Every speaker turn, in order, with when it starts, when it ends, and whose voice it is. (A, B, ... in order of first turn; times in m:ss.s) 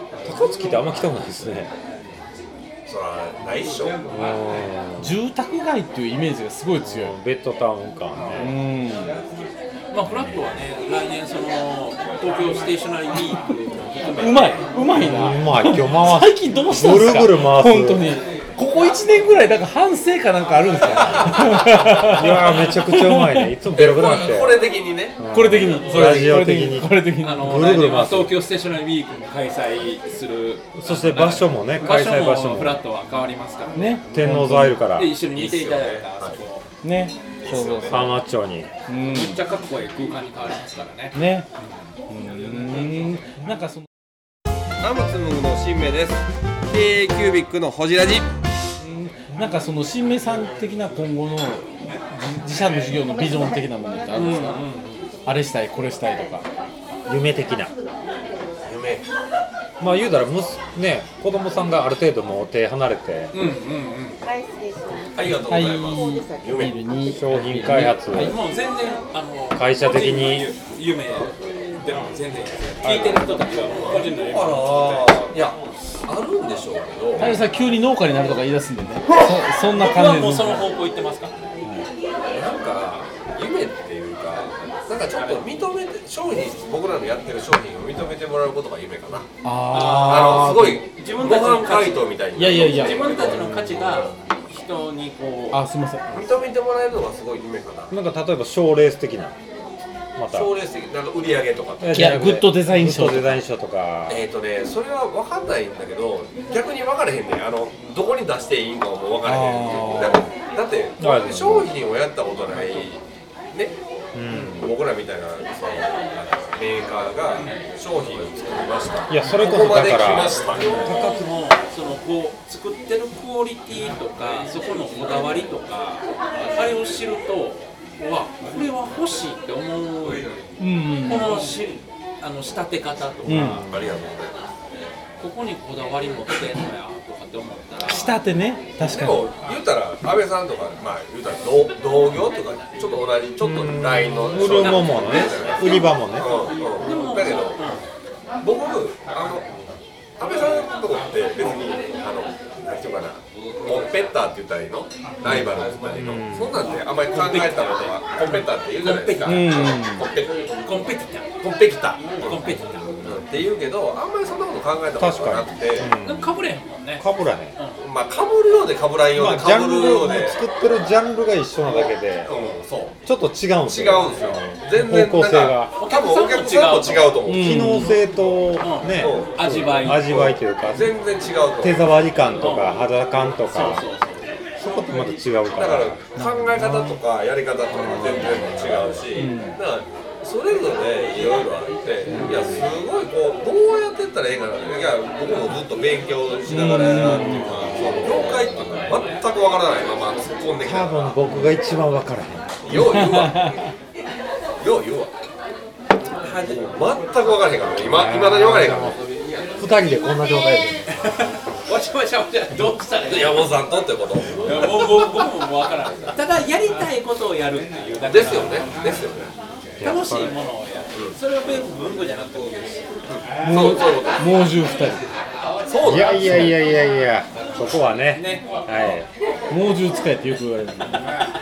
0:00.2-0:01.7 A
0:02.8-0:04.1 B
0:04.1-0:05.2 A
0:05.0-0:07.2 C
0:06.8-0:08.6 A
0:08.3-0:09.2 C
0:09.9-0:14.6 D
0:14.2-0:23.5 C
0:14.9-0:18.2 A
0:22.0-0:24.6 A
0:23.7-0:25.2 B
0:25.2-0:28.4 A
0:25.3-0:27.6 C
0:27.2-0:34.0 D
0:30.7-0:32.8 A
0:33.7-0:34.8 C
0:34.1-0:35.2 A
0:34.9-0:36.6 D
0:35.3-0:36.4 B
0:36.8-0:38.2 C
0:37.4-0:38.1 B
0:37.9-0:38.7 A
0:38.9-0:39.4 C
0:39.1-0:41.7 D
0:41.1-0:41.5 C
0:42.1-0:43.8 C
0:44.8-0:48.3 B
0:48.8-0:54.6 C
0:54.1-0:55.1 D
0:55.2-0:56.4 C
0:57.0-0:57.7 A
0:58.6-0:59.0 B
0:59.8-1:03.3 A
1:03.3-1:04.2 D
1:04.2-1:07.1 E
1:05.1-1:06.8 B
1:05.3-1:08.4 C
1:07.1-1:08.3 A
1:08.2-1:15.3 D
1:09.5-1:10.5 A
1:11.2-1:11.8 E
1:12.8-1:13.3 A
1:13.5-1:17.3 B
1:17.2-1:20.7 C
1:19.7-1:21.5 D
1:22.2-1:33.8 B
1:25.1-1:25.5 D
1:29.4-1:30.8 C
1:29.7-1:32.1 D
1:32.3-1:33.2 C
1:32.7-1:35.6 D
1:33.2-1:34.0 A
1:35.5-1:36.1 C
1:36.1-1:37.9 B
1:37.9-1:39.4 A
1:40.2-1:40.5 A
1:40.3-1:42.3 B
1:41.8-1:44.2 A
1:41.9-1:43.4 C
1:44.1-1:53.8 B
1:49.2-1:50.3 C
1:51.0-1:51.7 A
1:54.1-1:54.7 A
1:54.3-2:00.9 B
1:59.1-2:01.3 A
2:00.5-2:10.2 D
2:10.6-2:11.5 C
2:11.0-2:13.6 D
2:13.2-2:13.9 A
2:13.2-2:13.7 C
2:13.6-2:14.4 B
2:15.2-2:18.1 D
2:17.8-2:19.3 C
2:18.8-2:27.7 B
2:23.4-2:26.4 A
2:24.5-2:27.8 D
2:28.4-2:40.6 B
2:35.2-2:36.6 A
2:37.1-2:39.8 D
2:39.2-2:40.0 C
2:40.5-2:41.3 D
2:41.4-2:45.9 B
2:42.2-2:43.0 D
2:45.0-2:46.3 A
2:46.0-2:47.8 D
2:47.0-2:47.6 A
2:47.8-2:50.4 B
2:49.1-2:52.3 A
2:51.6-2:53.0 B
2:53.0-2:55.7 A
2:53.6-2:58.0 B
2:55.8-2:57.2 D
2:57.2-2:58.0 C
2:57.3-3:00.9 A
2:58.6-3:00.3 D
2:58.8-3:02.0 B
3:01.6-3:03.8 A
3:02.4-3:05.1 D
3:04.6-3:06.0 A
3:05.5-3:21.4 B
3:06.2-3:06.6 C
3:06.6-3:06.9 A
3:07.8-3:09.0 A
3:09.1-3:09.6 C
3:12.1-3:12.7 A
3:16.5-3:17.7 C
3:17.0-3:18.5 A
3:20.6-3:22.7 A
3:22.6-3:23.6 B
3:22.7-3:23.6 C
3:24.6-3:25.1 B
3:26.1-3:26.7 D
3:26.4-3:29.5 B
3:27.8-3:29.0 A
3:29.5-3:30.9 A
3:31.1-3:33.5 D
3:33.0-3:35.0 B
3:34.4-3:38.7 D
3:38.0-3:39.3 B
3:39.8-3:40.3 A
3:39.8-3:42.8 D
3:43.1-3:44.2 B
3:43.4-3:45.0 C
3:45.7-3:46.5 B
3:45.8-3:49.1 A
3:48.1-3:48.5 D
3:49.5-3:51.1 C